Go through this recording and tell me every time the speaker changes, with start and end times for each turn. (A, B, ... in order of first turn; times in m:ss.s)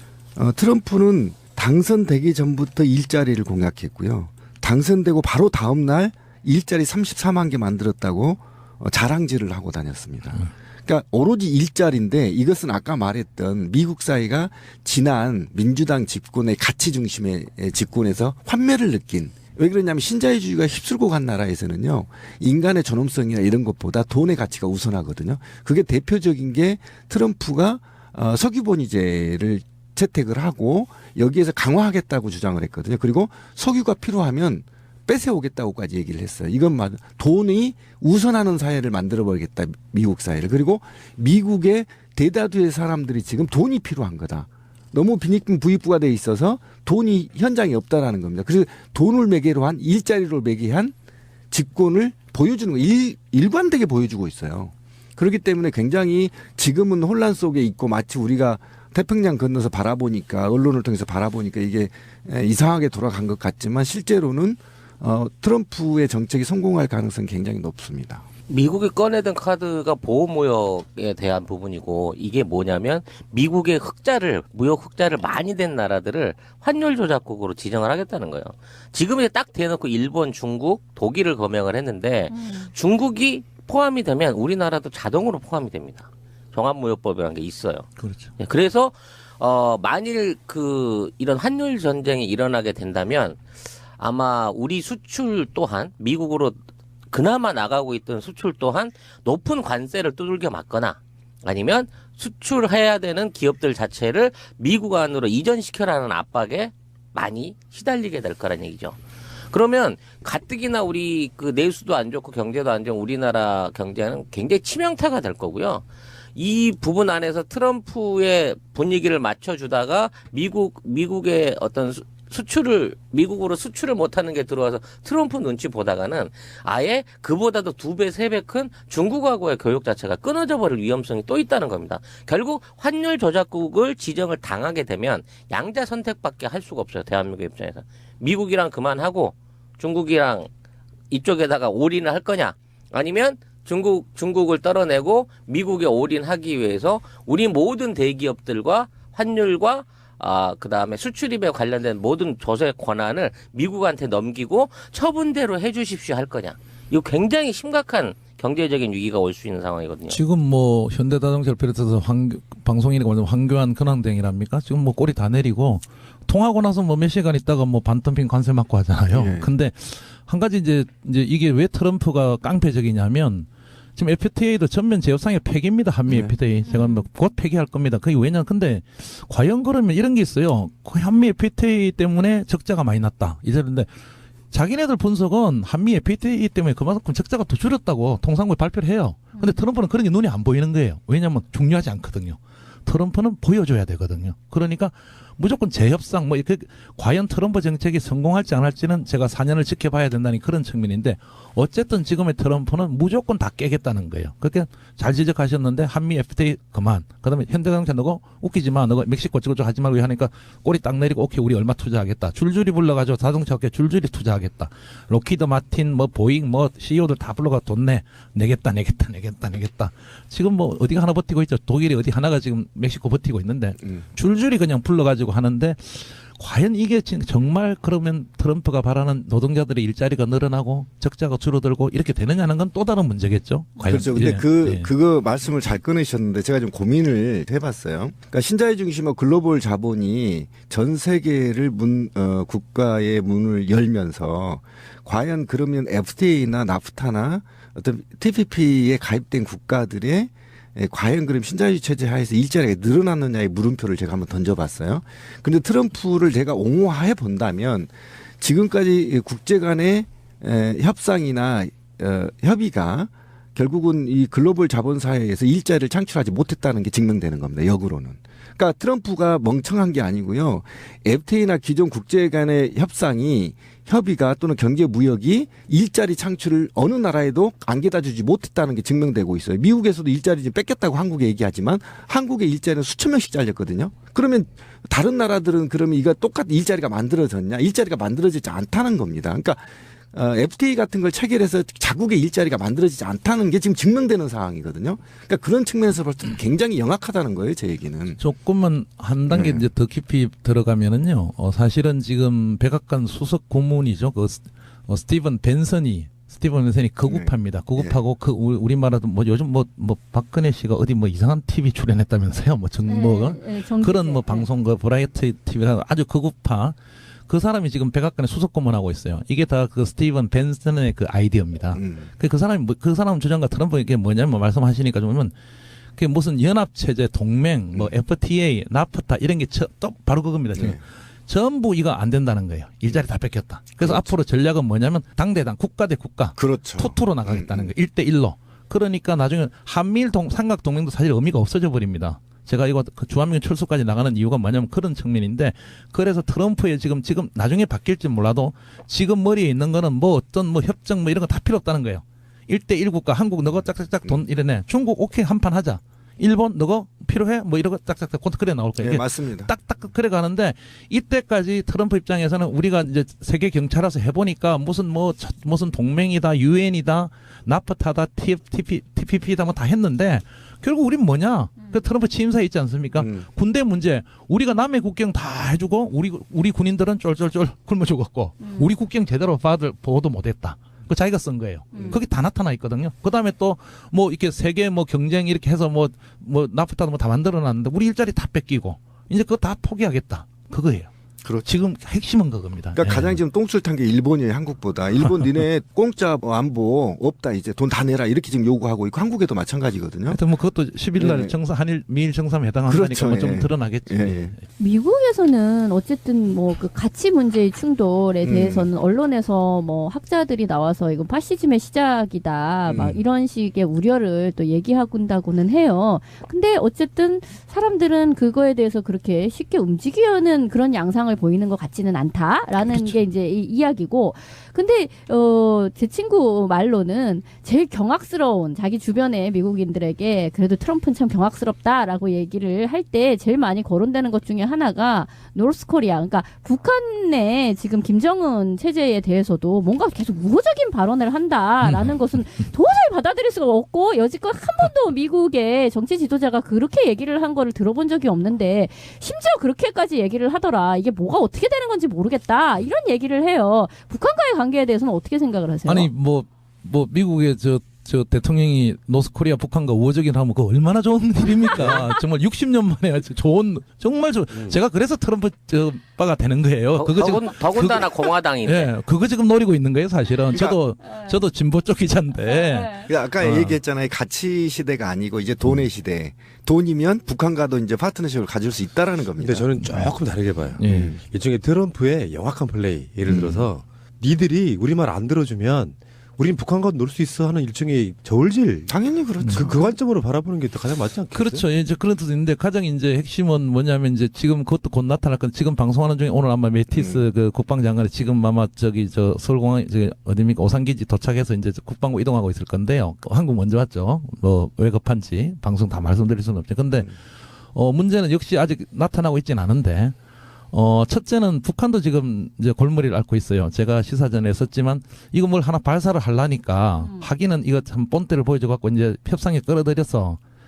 0:00.4-0:50.9 A
0:51.5-1:08.2 A
1:08.5-1:27.9 B
1:22.3-1:22.7 C
1:28.0-1:28.3 D
1:28.4-1:33.4 B
1:34.0-1:36.6 B
1:37.1-1:49.0 B
1:49.5-2:20.5 B
2:21.1-2:40.2 B
2:40.1-3:03.9 D
2:49.1-2:49.5 A
2:56.1-2:56.3 A
2:56.7-2:57.0 C
3:04.5-3:54.9 D
3:53.8-4:58.2 A
4:58.2-5:16.8 D
4:59.3-4:59.6 A
5:07.1-5:08.0 A
5:12.9-5:14.5 C
5:17.3-5:25.3 D
5:21.7-5:22.1 A
5:26.0-6:30.9 D
5:33.8-5:34.1 A
5:36.4-5:37.7 A
5:58.8-5:59.5 A
6:13.0-6:13.2 A
6:18.4-6:18.7 C
6:21.7-6:22.0 C
6:31.4-6:33.2 D
6:32.7-6:40.2 A
6:40.1-6:44.4 D
6:41.0-6:41.3 A
6:42.7-6:44.3 A
6:44.6-7:35.9 C
6:48.2-6:48.7 A
6:52.7-6:53.0 A
7:21.6-7:22.0 D
7:35.7-7:53.6 D
7:46.8-7:48.7 B
7:50.3-7:50.6 A
7:52.5-7:52.8 C
7:52.8-7:59.5 A
7:59.2-8:08.7 E
7:59.6-7:59.9 D
8:00.6-8:00.9 D
8:00.7-8:01.0 A
8:03.1-8:03.5 A
8:08.7-8:09.8 A
8:09.2-8:09.5 D
8:09.3-8:11.4 E
8:11.1-8:27.0 D
8:16.7-8:17.0 A
8:27.5-8:30.0 D
8:30.5-8:40.2 D